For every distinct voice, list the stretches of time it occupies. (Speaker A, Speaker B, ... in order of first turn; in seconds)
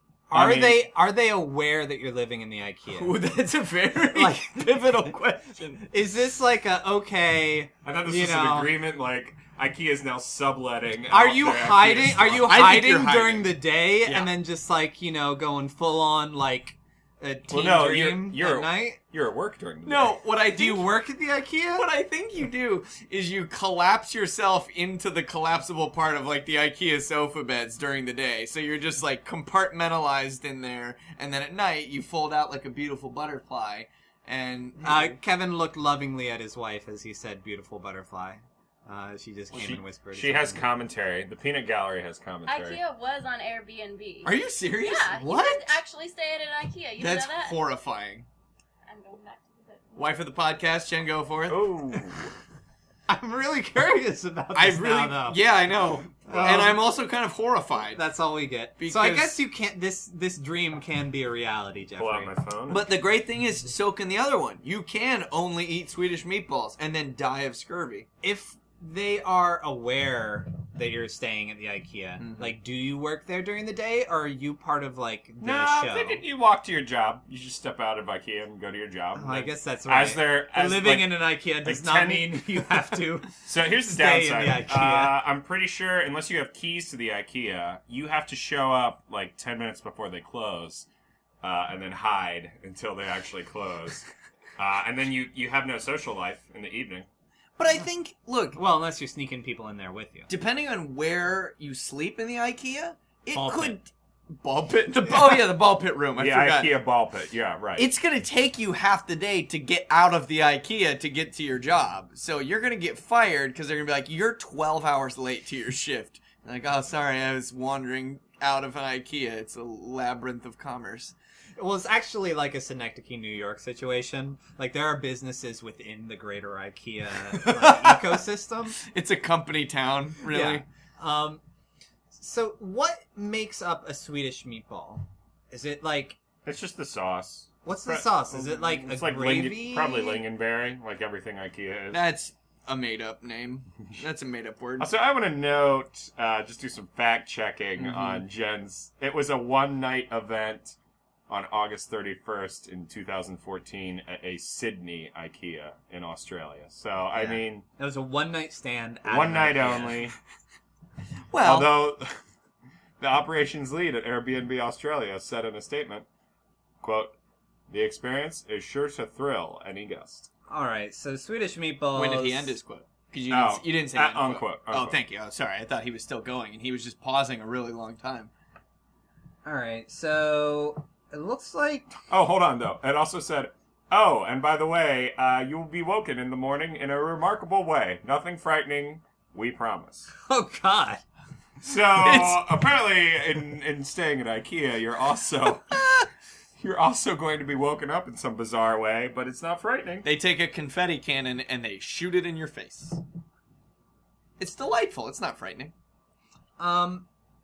Speaker A: 0.3-3.2, 4.0-5.1, 5.8-8.7, 11.1-19.0, 20.5-21.9, 34.8-40.6, 45.1-45.8, 53.1-55.4, 56.3-56.9, 57.9-62.3, 68.2-76.2, 79.2-85.2, 98.5-100.3, 103.3-103.8, 121.6-128.8, 130.2-131.4, 132.1-136.2, 137.6-140.2, 157.1-160.1, 170.5-172.6, 179.4-181.9, 190.3-191.0, 206.6-207.1
Speaker B: 0.3-0.9, 7.8-12.7, 17.5-20.2, 39.5-42.8, 51.5-52.3, 62.0-63.0, 75.4-90.9, 91.4-94.1, 94.6-97.1, 106.2-107.9, 136.4-142.1, 144.8-150.8, 151.3-157.7, 159.1-160.2, 161.4-162.2, 163.0-166.1, 166.8-167.2, 167.7-170.3, 173.3-175.0, 182.1-190.1, 191.6-195.8, 196.6-200.1
Speaker C: 2.9-5.8, 12.4-14.3, 19.9-21.0, 21.8-35.2, 44.2-45.1, 47.0-48.3, 50.0-52.0, 54.5-58.0, 58.8-59.4, 62.7-68.1, 72.2-72.5, 97.6-98.6, 100.3-106.7, 107.8-121.2, 127.3-128.2, 128.8-130.6, 141.9-144.9, 147.8-148.2, 161.3-161.8, 171.9-178.3, 191.7-192.4, 200.0-203.0, 204.4-205.7
Speaker D: 42.5-47.6, 48.9-50.0